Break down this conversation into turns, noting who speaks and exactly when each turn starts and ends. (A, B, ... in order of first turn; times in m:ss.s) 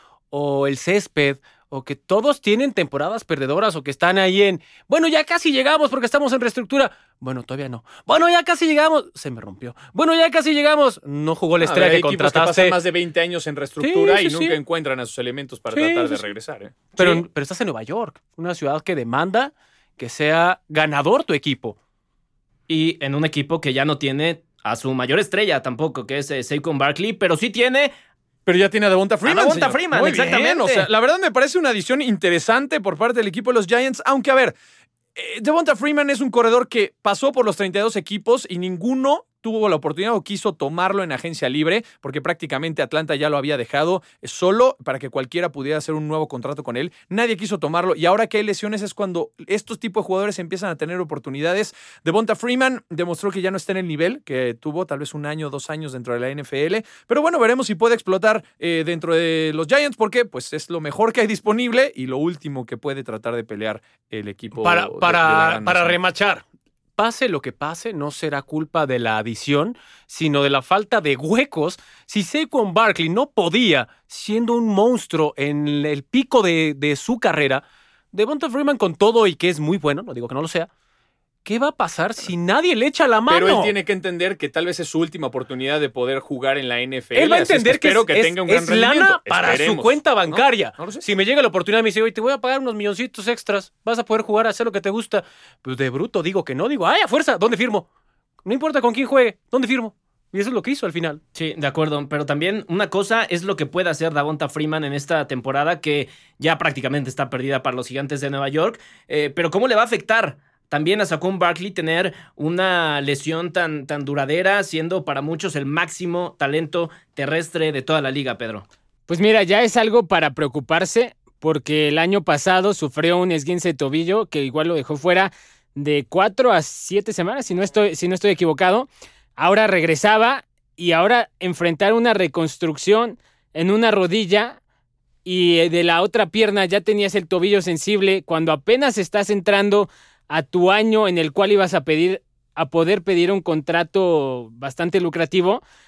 0:00.3-0:12.8 A
0:11.6-0:17.2 B
0:13.8-0:14.6 A
0:15.7-0:16.2 A
0:17.0-0:21.8 A
0:22.7-0:27.9 C
0:28.4-0:34.5 B
0:29.2-0:30.9 C
0:35.2-1:06.0 B
1:04.6-1:06.4 A
1:07.0-1:20.7 A
1:21.4-1:23.8 A
1:23.3-1:31.0 B
1:27.1-1:37.8 A
1:38.4-1:41.2 A
1:41.3-1:58.6 C
1:59.1-2:14.6 D
2:15.2-2:25.6 D